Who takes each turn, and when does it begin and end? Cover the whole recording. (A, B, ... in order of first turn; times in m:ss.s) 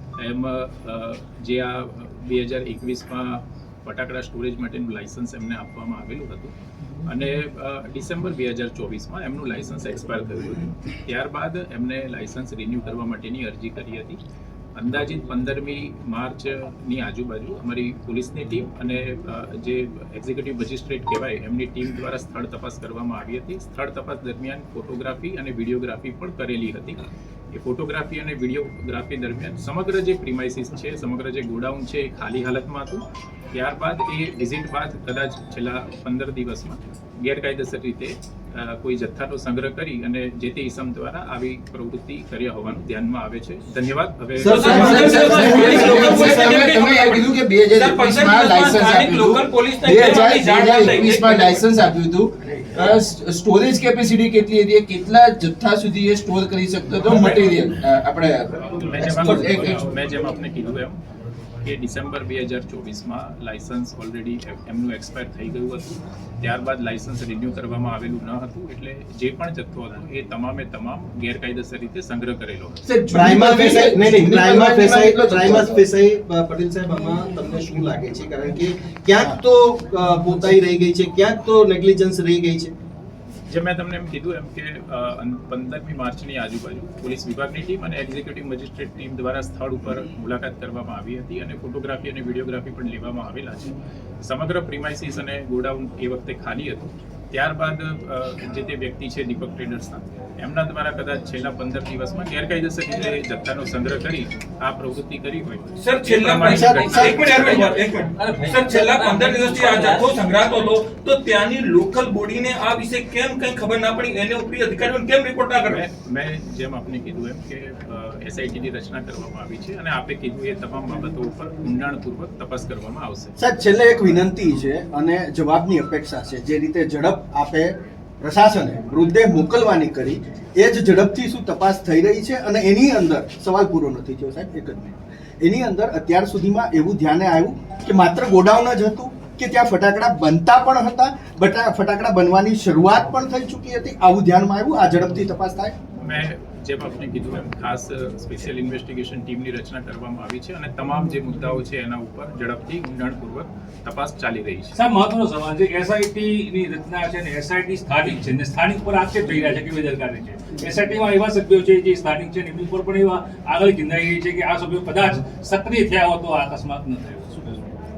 0:00.2-0:06.5 A
0:07.0-0:14.2 A
0:14.8-0:33.0 A
0:33.5-0:45.8 A
0:44.4-0:46.7 B
0:44.4-0:51.6 C
0:44.6-0:59.9 D
0:57.1-0:57.6 A
0:58.6-1:01.0 A
1:01.6-1:12.8 A
1:12.8-1:15.8 D
1:13.1-1:22.7 B
1:23.5-1:47.8 A
1:45.8-1:55.8 C
1:46.4-1:47.7 E
1:46.5-1:47.1 B
1:48.2-1:50.1 F
1:55.6-2:03.3 A
2:03.4-2:15.0 E
2:08.9-2:09.2 B
2:15.4-2:15.8 B
2:15.8-2:18.4 E
2:17.9-2:19.0 B
2:19.0-2:25.7 E
2:26.0-2:34.8 A
2:34.7-2:47.8 F